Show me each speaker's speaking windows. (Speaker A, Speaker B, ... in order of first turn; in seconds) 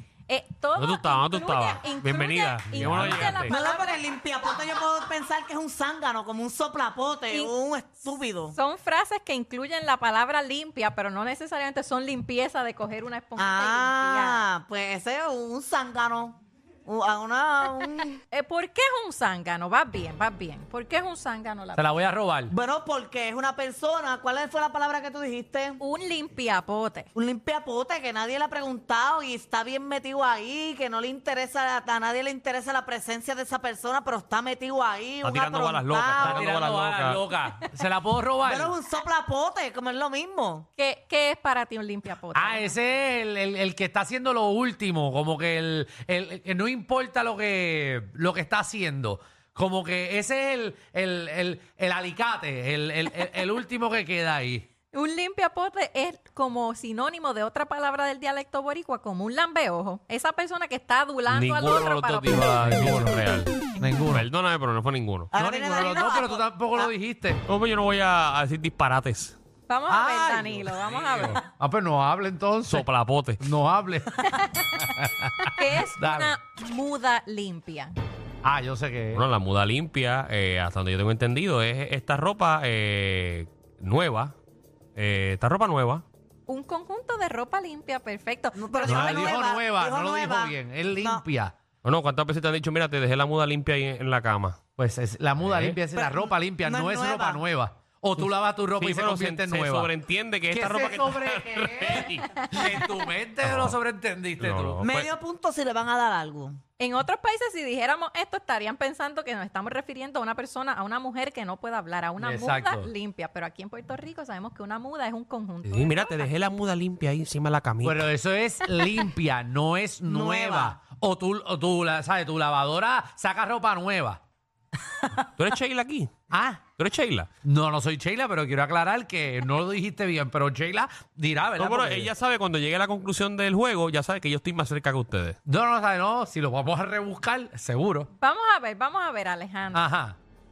Speaker A: 0.3-4.0, 7.3-14.4, 18.3-21.8, 25.8-27.1, 40.8-42.8, 54.9-63.0, 69.7-71.4, 74.3-77.9, 86.5-89.3, 106.8-116.3, 138.1-139.8
Speaker B: 0.8-3.5, 35.2-37.2, 61.3-63.5, 64.1-65.3, 67.5-69.4, 72.7-73.4, 79.1-84.3, 85.0-86.0, 91.8-94.6, 95.4-95.8, 98.8-102.3, 103.4-103.8, 104.4-105.1, 115.6-118.1, 125.4-126.1, 126.8-127.3, 131.6-135.4
Speaker C: 2.7-3.4, 21.7-22.5, 36.2-38.8, 42.3-54.7, 63.8-64.3, 65.3-67.4, 69.9-76.4, 78.4-79.2, 88.8-91.5, 94.8-99.9, 100.5-104.8, 112.2-112.9, 117.8-124.2, 126.3-126.6, 127.4-132.1, 135.4-138.1, 139.7-140.2
Speaker D: 3.5-8.6, 13.4-18.2, 22.5-25.8, 27.1-36.5, 38.4-40.7, 65.3-66.9, 88.5-91.2, 95.9-97.4, 104.8-106.6, 120.1-120.8